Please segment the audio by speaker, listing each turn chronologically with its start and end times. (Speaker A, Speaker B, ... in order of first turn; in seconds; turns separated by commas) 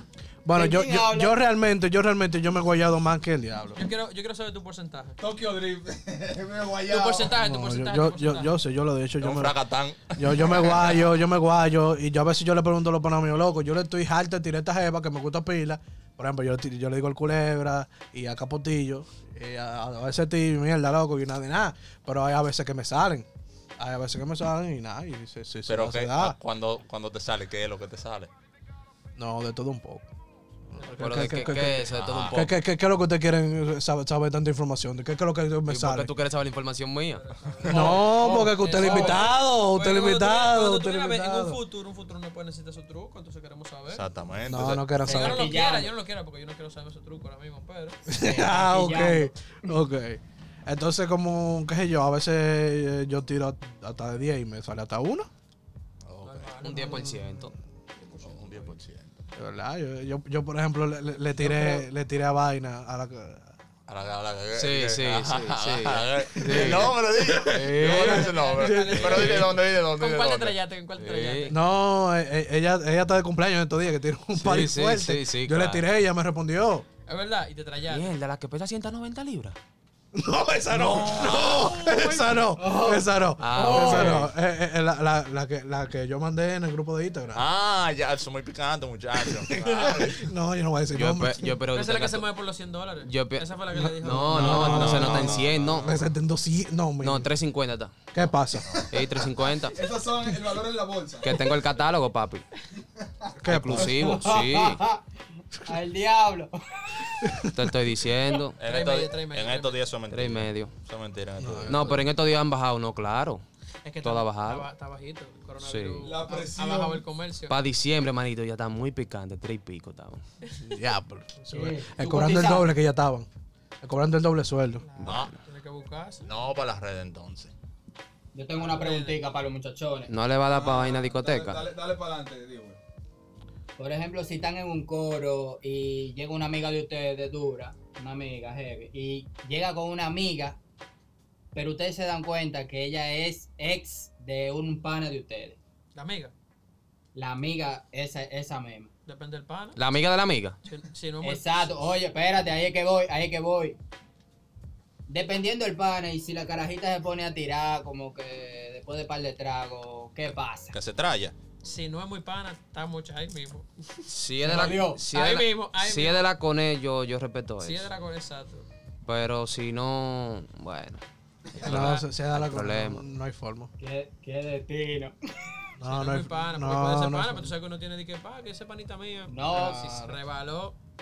Speaker A: 0.5-3.8, Speaker B: 0.5-1.4, Speaker C: 3.8-5.2, Speaker D: 5.2-7.4, Speaker C: 6.9-8.6, Speaker A: 7.4-23.3, Speaker E: 9.2-11.0, Speaker A: 23.8-26.4, Speaker E: 25.7-28.3, Speaker A: 29.2-30.1, Speaker A: 30.7-36.1, Speaker C: 30.8-31.3, Speaker F: 31.0-32.5, Speaker E: 31.9-32.4, Speaker F: 35.7-37.3, Speaker C: 37.1-44.0, Speaker E: 37.5-38.0, Speaker A: 37.6-41.6, Speaker B: 37.7-39.2, Speaker E: 43.9-44.9, Speaker A: 44.5-45.6, Speaker C: 45.0-48.0, Speaker B: 45.1-45.9, Speaker A: 48.1-55.3, Speaker B: 48.2-49.7, Speaker E: 56.0-56.7, Speaker C: 56.2-57.1, Speaker F: 56.6-57.5, Speaker A: 56.9-57.3, Speaker C: 58.0-58.8, Speaker E: 58.2-59.2, Speaker A: 59.4-63.5, Speaker E: 63.9-70.6, Speaker F: 64.5-68.3, Speaker A: 66.4-69.5, Speaker C: 67.8-71.6, Speaker F: 69.0-69.5, Speaker F: 71.0-71.5, Speaker A: 71.5-76.9, Speaker F: 74.3-75.9, Speaker C: 77.1-78.1, Speaker F: 77.9-79.6, Speaker A: 80.1-87.4, Speaker E: 80.8-81.6, Speaker C: 80.9-82.5, Speaker B: 82.6-84.2, Speaker F: 83.4-84.3, Speaker E: 87.3-90.3, Speaker A: 89.3-91.6, Speaker C: 89.5-90.1, Speaker F: 90.9-92.3, Speaker C: 91.7-95.0, Speaker F: 93.0-95.9, Speaker A: 93.7-97.3, Speaker E: 94.5-96.0, Speaker F: 97.0-98.1, Speaker A: 98.1-98.8, Speaker F: 98.9-99.9, Speaker D: 99.7-101.5, Speaker F: 101.2-102.5, Speaker A: 103.4-104.0, Speaker F: 103.5-104.8, Speaker B: 103.8-105.0, Speaker B: 105.6-107.5, Speaker A: 107.2-107.5, Speaker F: 107.5-108.6, Speaker E: 108.6-112.0, Speaker C: 108.6-109.9, Speaker F: 110.1-110.7, Speaker A: 111.4-112.1, Speaker F: 111.7-113.4, Speaker C: 113.8-117.5, Speaker F: 114.0-114.7, Speaker F: 115.6-116.2, Speaker D: 116.0-117.0, Speaker F: 117.5-120.2, Speaker A: 120.6-123.3, Speaker B: 121.5-122.7, Speaker A: 123.8-124.9, Speaker C: 124.8-126.3, Speaker E: 125.0-125.3, Speaker E: 126.2-127.5, Speaker B: 128.3-130.1, Speaker C: 128.6-129.2, Speaker F: 130.1-131.6, Speaker D: 130.5-132.8, Speaker B: 133.8-140.6, Speaker B: 141.6-145.6, Speaker C: 145.9-146.3, Speaker B: 147.2-148.9, Speaker C: 149.1-149.8, Speaker F: 149.8-150.6, Speaker C: 150.7-151.8, Speaker B: 151.2-153.8, Speaker B: 155.1-160.8, Speaker E: 160.7-161.3, Speaker C: 161.6-164.1, Speaker F: 164.1-167.9, Speaker B: 164.4-165.0, Speaker C: 165.1-166.3, Speaker C: 167.6-168.7, Speaker F: 169.1-171.0, Speaker C: 171.5-172.1, Speaker A: 171.6-173.7, Speaker F: 171.7-173.1, Speaker B: 173.8-175.5, Speaker A: 175.8-177.5, Speaker C: 175.8-180.8, Speaker B: 179.3-180.1